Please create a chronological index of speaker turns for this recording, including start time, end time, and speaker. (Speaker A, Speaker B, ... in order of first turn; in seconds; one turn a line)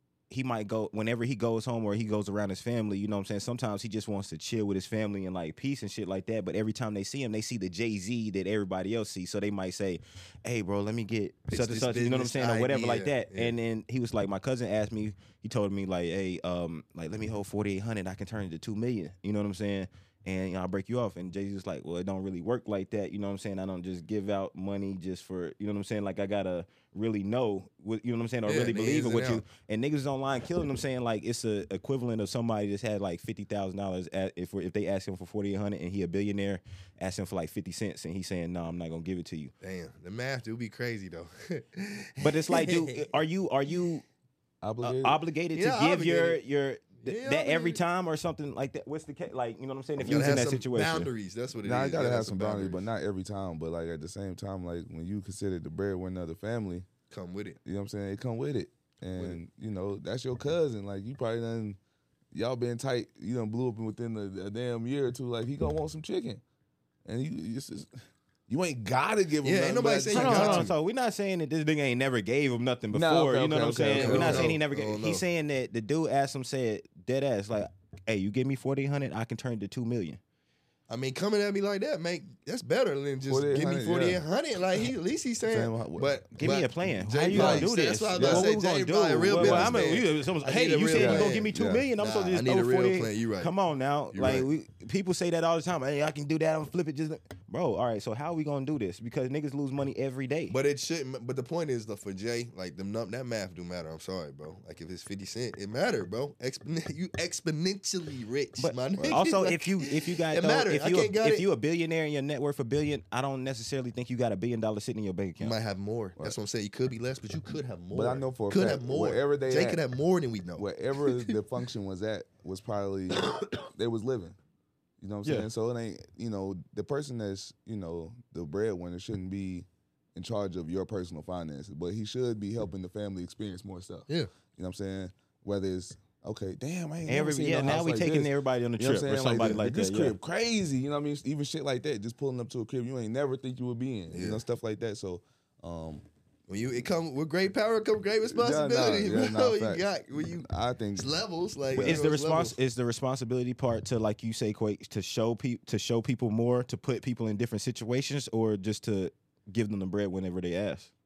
Speaker A: 0.3-39.5
Speaker B: 11.5-13.5
Speaker B: 28.4-29.4
Speaker B: 39.6-43.0
Speaker A: 42.2-44.0
Speaker C: 44.6-45.2
Speaker A: 44.8-51.1
Speaker B: 45.5-46.4
Speaker B: 47.0-47.8
Speaker B: 50.0-52.8
Speaker C: 51.6-56.9
Speaker B: 57.1-57.6
Speaker C: 57.6-61.8
Speaker C: 62.3-66.4
Speaker C: 67.0-70.7
Speaker B: 69.4-70.7
Speaker A: 70.1-80.2
Speaker C: 72.9-74.5
Speaker B: 73.9-75.2
Speaker B: 80.9-93.5
Speaker C: 83.3-84.2
Speaker C: 85.4-86.7
Speaker A: 86.4-100.5
Speaker C: 87.3-88.5
Speaker C: 89.3-90.0
Speaker C: 90.9-91.8
Speaker B: 94.1-94.5
Speaker B: 100.5-111.5
Speaker A: 108.6-115.6
Speaker B: 115.4-121.3
Speaker C: 117.9-119.8
Speaker C: 120.6-124.3
Speaker B: 123.2-123.6
Speaker C: 125.0-146.0
Speaker A: 137.1-140.1
Speaker B: 144.1-144.4
Speaker B: 146.5-150.4
Speaker C: 148.2-151.1
Speaker B: 151.0-152.5
Speaker C: 151.7-152.0
Speaker A: 151.8-160.9